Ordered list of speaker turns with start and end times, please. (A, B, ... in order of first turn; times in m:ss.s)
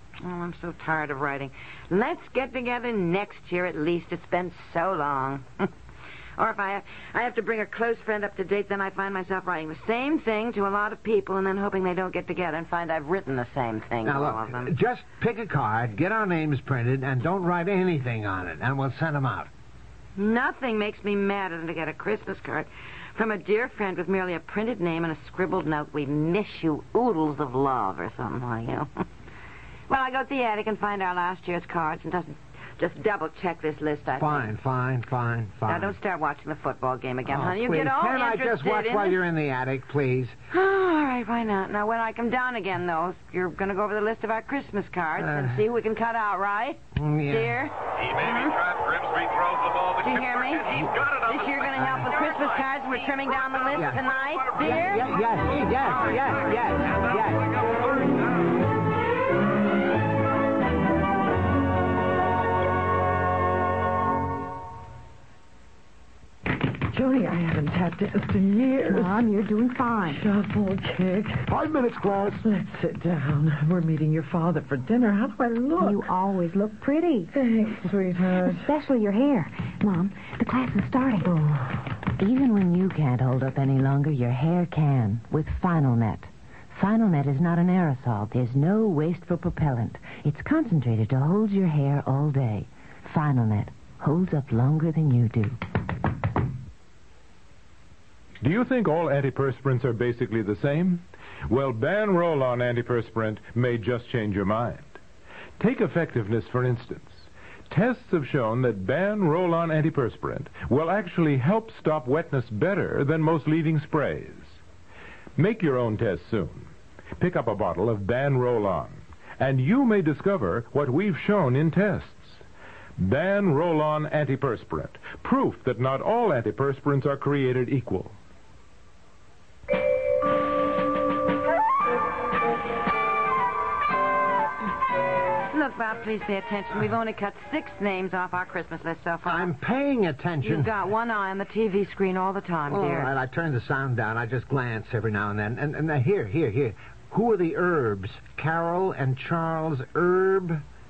0:00.2-0:05.7 A
0:06.4-0:14.8 A
0:14.0-0:19.5 B
0:20.2-0:28.9 A
0:29.9-0:34.5 A
0:34.1-0:36.0 B
0:35.7-0:39.2 A
0:37.3-0:40.3 B
0:40.5-0:48.5 A
0:45.2-0:45.6 B
0:47.0-0:47.6 B
0:48.3-0:52.6 C
0:50.0-0:56.7 A
0:53.3-0:54.5 C
0:53.7-0:54.0 B
0:54.6-0:57.5 B
0:57.0-0:58.4 C
1:06.7-1:16.1 D
1:08.8-1:10.3 E
1:15.5-1:17.3 E
1:17.3-1:18.7 D
1:18.5-1:21.6 E
1:22.2-1:35.6 F
1:38.4-1:44.9 G
1:45.6-1:54.5 G
1:55.4-2:02.4 G
2:03.0-2:08.2 G
2:15.5-2:19.5 A
2:19.2-2:20.7 B
2:20.4-2:23.1 A
2:22.7-2:30.6 B